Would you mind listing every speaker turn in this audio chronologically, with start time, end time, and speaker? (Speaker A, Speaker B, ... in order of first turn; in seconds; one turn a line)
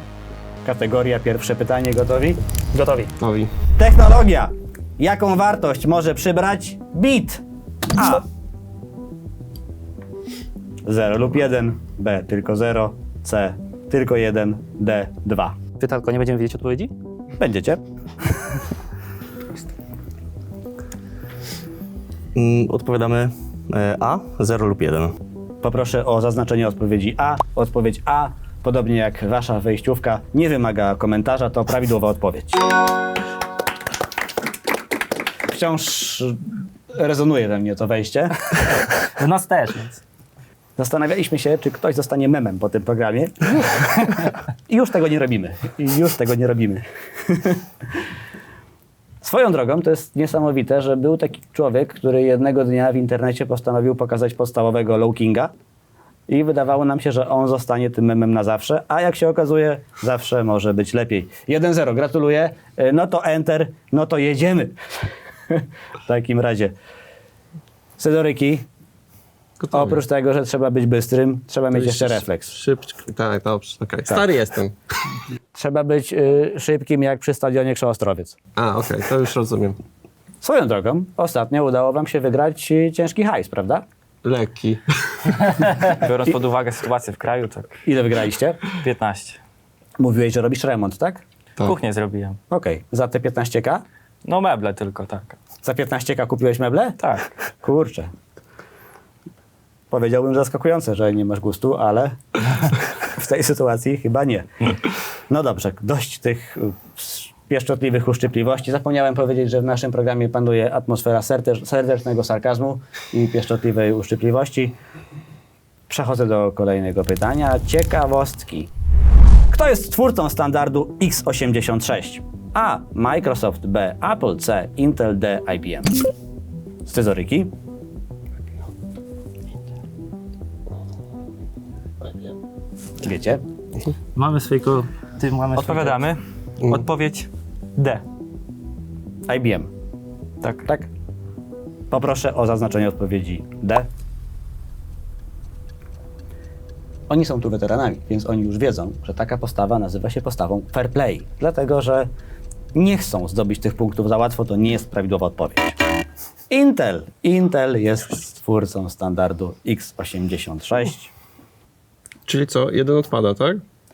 Speaker A: 0.6-2.4
Speaker B: 2.7-3.1
Speaker C: 3.2-3.5
Speaker A: 3.8-7.4
Speaker A: 8.0-8.2
Speaker A: 10.8-15.6
Speaker B: 15.8-16.9
Speaker A: 17.4-17.8
Speaker D: 22.4-25.2
Speaker A: 25.6-32.6
Speaker A: 35.5-38.5
Speaker B: 39.0-40.0
Speaker A: 40.8-44.1
Speaker A: 44.7-47.6
Speaker A: 49.2-55.5
Speaker A: 56.3-64.8
Speaker A: 65.5-66.7
Speaker A: 68.0-68.7
Speaker C: 69.6-70.0
Speaker A: 69.7-72.5
Speaker C: 71.7-74.8
Speaker A: 74.1-74.3
Speaker A: 75.5-78.4
Speaker C: 78.6-79.8
Speaker A: 80.4-83.8
Speaker C: 84.2-85.5
Speaker E: 85.8-87.8
Speaker A: 87.8-88.6
Speaker E: 88.7-89.4
Speaker A: 90.0-91.2
Speaker E: 91.6-92.4
Speaker A: 92.5-93.8
Speaker E: 94.2-95.4
Speaker A: 95.6-97.0
Speaker E: 97.0-97.3
Speaker A: 97.6-98.1
Speaker A: 99.9-102.2
Speaker A: 103.0-104.7
Speaker A: 105.3-114.8
Speaker A: 115.9-118.7
Speaker A: 119.5-126.0
Speaker A: 126.9-127.5
Speaker A: 133.0-133.4
Speaker B: 134.2-136.0
Speaker E: 135.6-138.0
Speaker A: 139.3-139.7
Speaker A: 141.9-143.9
Speaker A: 147.1-152.1
Speaker A: 152.7-155.8
Speaker A: 156.5-161.1
Speaker C: 162.3-163.6